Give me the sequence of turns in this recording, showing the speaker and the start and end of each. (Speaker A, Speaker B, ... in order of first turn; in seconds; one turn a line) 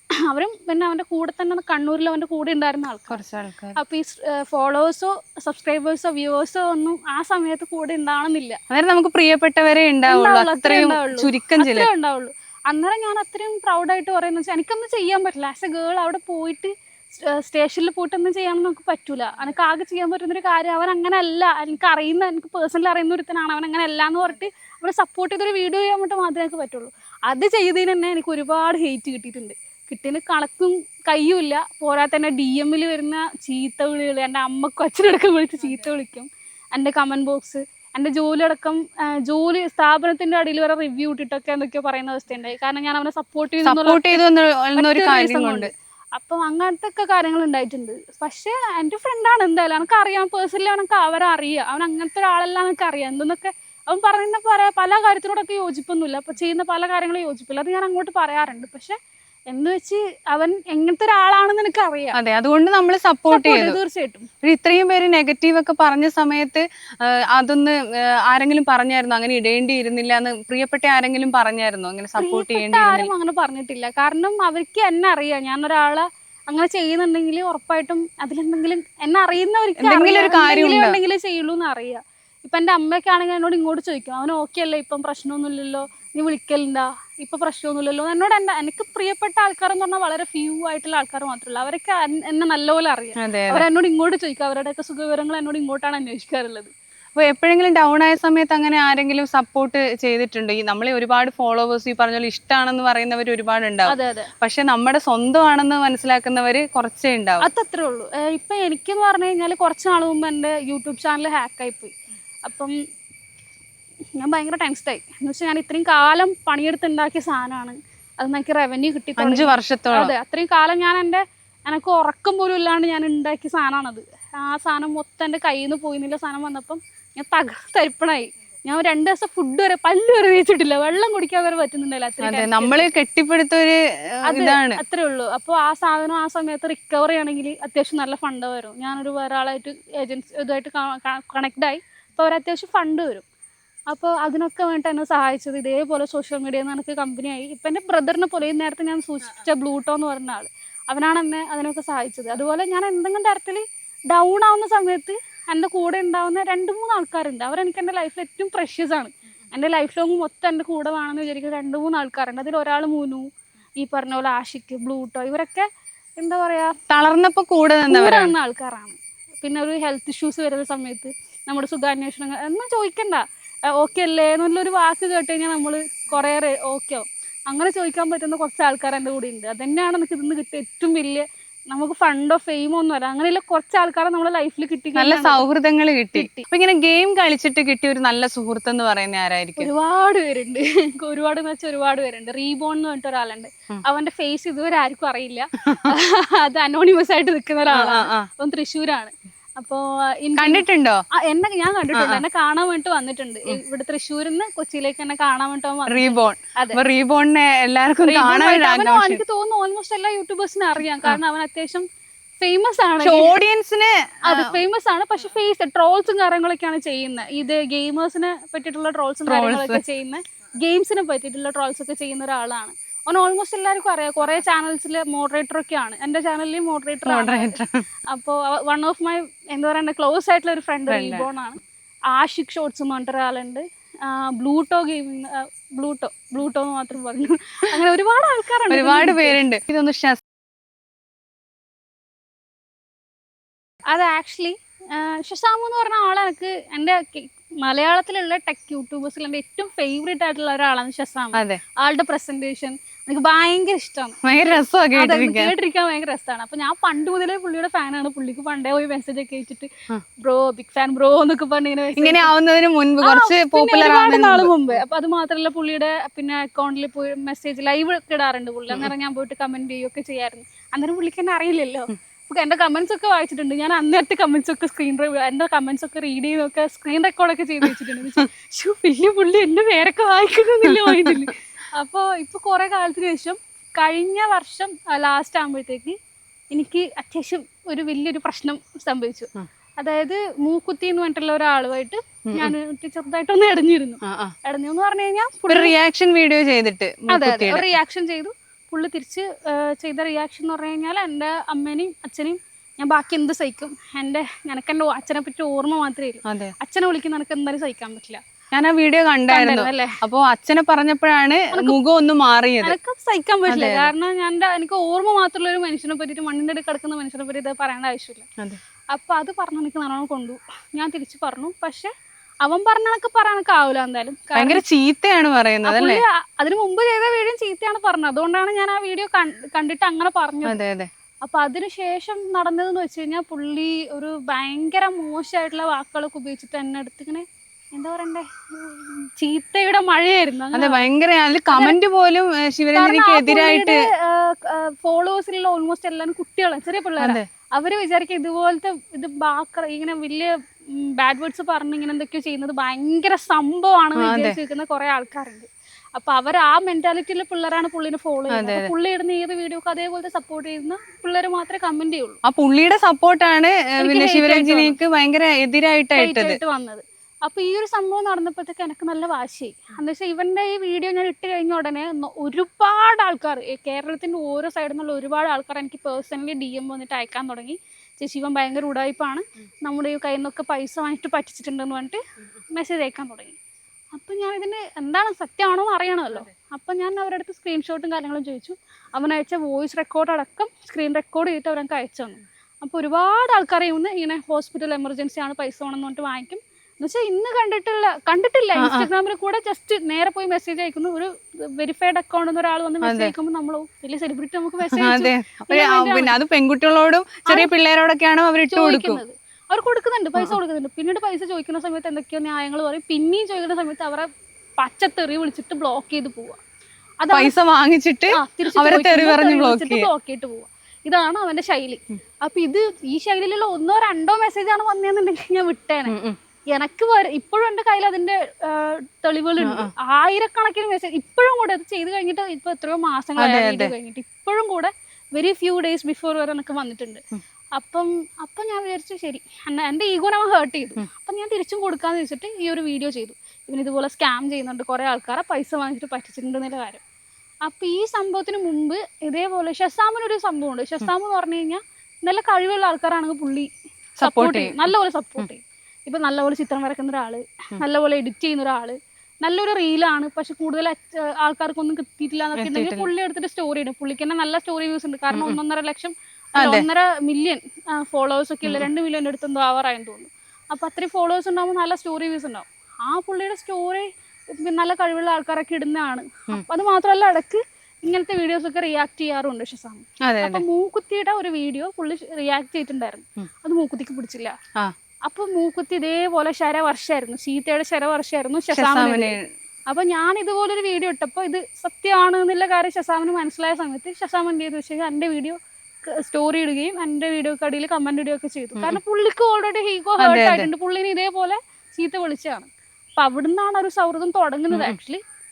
Speaker A: 0.3-3.2
Speaker B: 3.1-3.8
Speaker A: 3.8-8.6
Speaker B: 8.7-11.9
Speaker A: 10.1-44.2
Speaker B: 43.6-45.7
Speaker A: 44.8-59.0
Speaker A: 59.5-62.1
Speaker B: 62.1-63.8
Speaker A: 63.3-64.3
Speaker B: 64.4-73.1
Speaker A: 72.2-96.7
Speaker B: 79.8-81.0
Speaker B: 93.2-93.6
Speaker B: 97.2-107.5
Speaker A: 103.9-104.3
Speaker A: 107.4-111.9
Speaker A: 112.5-112.7
Speaker A: 114.2-132.9
Speaker B: 119.2-120.1
Speaker B: 132.2-134.8
Speaker A: 134.3-143.2
Speaker A: 143.9-163.3
Speaker A: 163.8-165.7
Speaker A: 166.2-166.7
Speaker B: 166.9-168.3
Speaker A: 167.9-185.4
Speaker B: 184.9-189.7
Speaker A: 186.1-186.4
Speaker A: 189.6-200.6
Speaker B: 197.7-198.3
Speaker B: 200.4-201.0
Speaker A: 201.1-206.8
Speaker B: 201.9-202.2
Speaker B: 205.9-209.2
Speaker A: 208.0-211.8
Speaker A: 212.4-213.3
Speaker B: 213.0-214.6
Speaker A: 214.2-227.6
Speaker B: 219.3-219.8
Speaker B: 227.1-227.8
Speaker A: 228.1-231.6
Speaker B: 230.9-231.3
Speaker A: 232.1-239.4
Speaker B: 238.7-240.2
Speaker A: 243.9-254.2
Speaker B: 251.3-251.6
Speaker B: 254.2-255.5
Speaker A: 254.9-262.3
Speaker B: 262.0-264.5
Speaker A: 263.0-285.9
Speaker B: 277.6-278.2
Speaker B: 280.6-281.3
Speaker A: 286.5-295.7
Speaker B: 292.3-292.5
Speaker B: 294.0-294.3
Speaker B: 295.5-297.7
Speaker A: 297.1-308.2
Speaker B: 306.3-306.5
Speaker B: 308.5-312.7
Speaker A: 309.3-310.0
Speaker A: 312.6-318.3
Speaker B: 313.5-313.9
Speaker A: 318.9-321.9
Speaker A: 322.4-324.6
Speaker B: 324.4-326.0
Speaker A: 325.6-330.6
Speaker B: 330.4-330.9
Speaker A: 331.2-340.8
Speaker B: 340.5-343.8
Speaker A: 341.5-341.8
Speaker A: 342.7-362.2
Speaker B: 347.0-347.2
Speaker B: 354.0-354.4
Speaker B: 358.3-358.7
Speaker B: 362.2-366.4
Speaker A: 363.8-364.8
Speaker A: 365.9-383.4
Speaker A: 383.9-406.1
Speaker B: 398.6-398.9
Speaker B: 402.8-403.1
Speaker B: 404.7-409.0
Speaker A: 408.5-414.1
Speaker A: 414.6-416.4
Speaker A: 417.0-417.3
Speaker B: 417.1-419.9
Speaker A: 418.1-425.9
Speaker B: 425.9-426.2
Speaker A: 426.5-437.0
Speaker B: 429.4-429.7
Speaker B: 433.2-433.7
Speaker A: 437.6-446.8
Speaker A: 447.4-453.5
Speaker B: 454.0-454.6
Speaker A: 454.0-484.3
Speaker B: 462.4-462.9
Speaker B: 465.1-465.4
Speaker B: 466.4-466.6
Speaker B: 480.0-480.4
Speaker A: 485.1-489.1
Speaker B: 488.5-489.2
Speaker A: 489.7-505.0
Speaker B: 500.0-500.5
Speaker B: 504.5-504.8